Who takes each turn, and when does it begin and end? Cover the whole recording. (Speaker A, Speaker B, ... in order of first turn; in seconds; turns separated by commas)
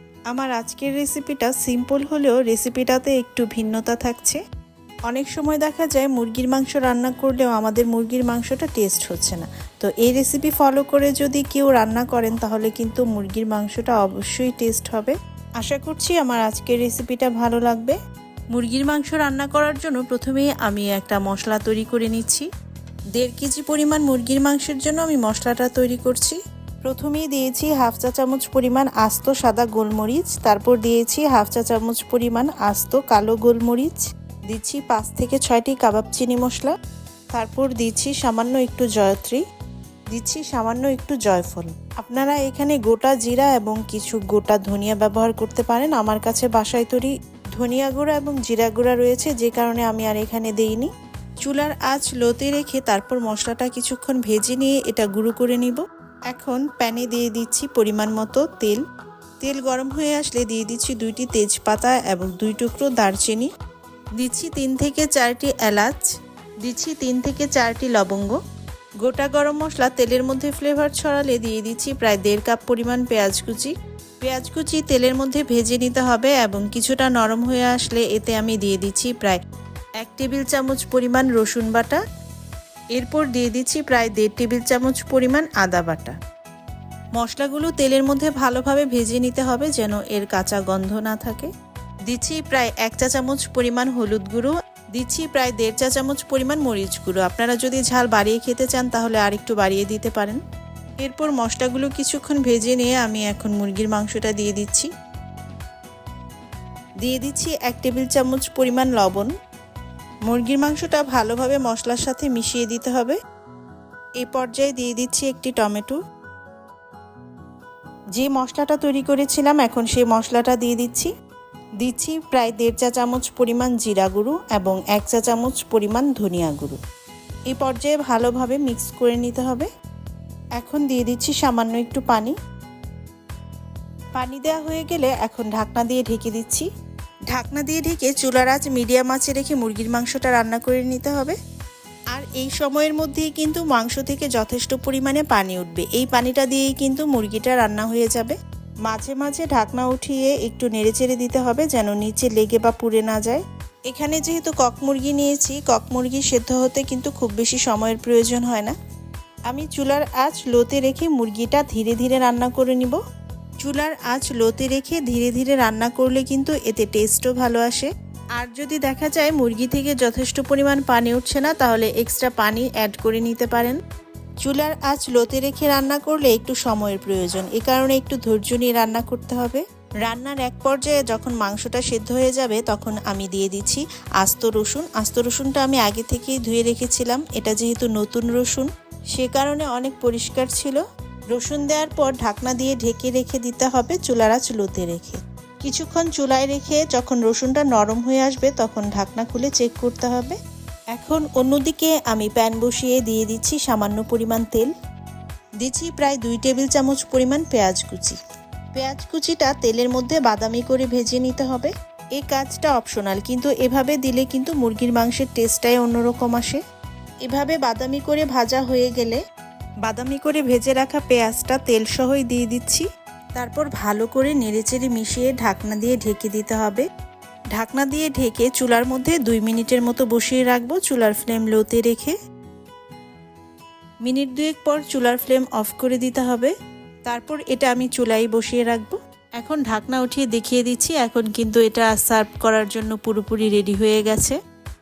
Speaker A: 0.3-4.4, Speaker A: 5.1-17.9, Speaker A: 18.5-22.4, Speaker A: 23.1-36.7, Speaker A: 37.3-39.4, Speaker A: 40.1-50.9, Speaker A: 51.4-58.8, Speaker A: 59.4-63.5, Speaker A: 64.2-66.1, Speaker A: 66.6-68.4, Speaker A: 69.0-79.4, Speaker A: 80.0-82.0, Speaker A: 82.9-86.2, Speaker A: 87.2-91.5, Speaker A: 92.1-100.4, Speaker A: 101.0-104.9, Speaker A: 107.0-109.3, Speaker A: 110.3-113.1, Speaker A: 114.2-116.0, Speaker A: 118.2-121.1, Speaker A: 121.8-126.8, Speaker A: 127.5-129.7, Speaker A: 130.6-132.3, Speaker A: 134.2-136.7, Speaker A: 137.3-141.3, Speaker A: 142.1-148.3, Speaker A: 148.9-158.7, Speaker A: 159.5-163.0, Speaker A: 163.6-173.8, Speaker A: 174.4-190.8, Speaker A: 191.3-200.3, Speaker A: 200.9-204.7, Speaker A: 205.6-208.2, Speaker A: 208.7-216.6, Speaker A: 217.2-219.2, Speaker A: 219.8-222.8, Speaker A: 223.4-226.8, Speaker A: 227.5-232.1, Speaker A: 234.0-236.5, Speaker A: 237.1-244.3